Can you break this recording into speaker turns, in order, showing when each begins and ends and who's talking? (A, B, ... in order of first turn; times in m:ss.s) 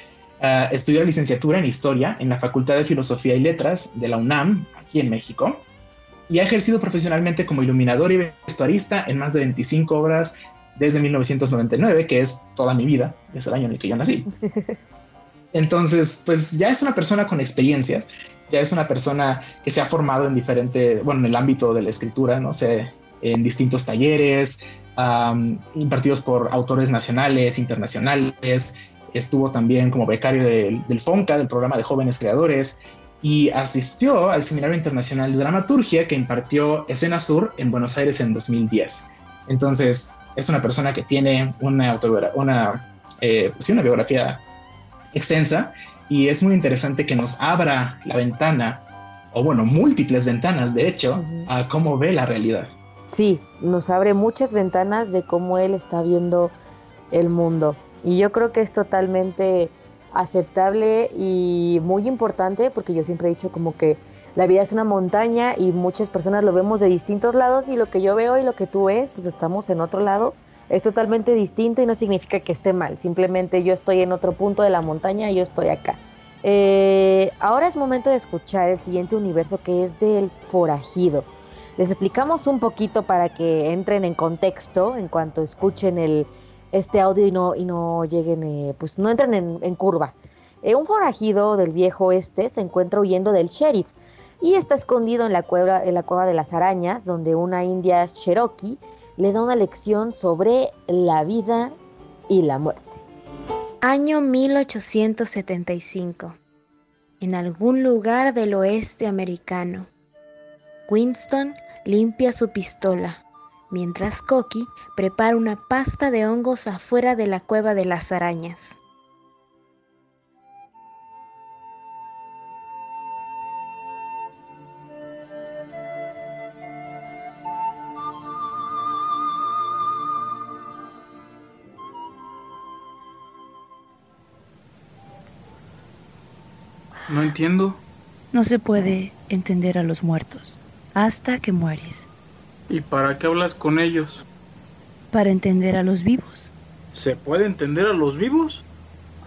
0:00.4-0:05.6 A
0:06.3-0:14.2 A
0:14.4-0:14.8 B
0:15.5-0:44.4 A
0:45.1-0:52.7 A
0:51.1-0:51.5 B
0:53.1-0:56.5 B
0:57.1-1:41.8 B
1:42.3-1:43.0 B
1:43.8-1:46.4 C
1:47.2-1:49.9 C
1:50.9-1:58.8 C
2:17.1-2:17.8 D
2:18.3-2:22.1 E
2:22.7-2:24.2 D
2:25.1-2:26.5 E
2:26.9-2:28.6 D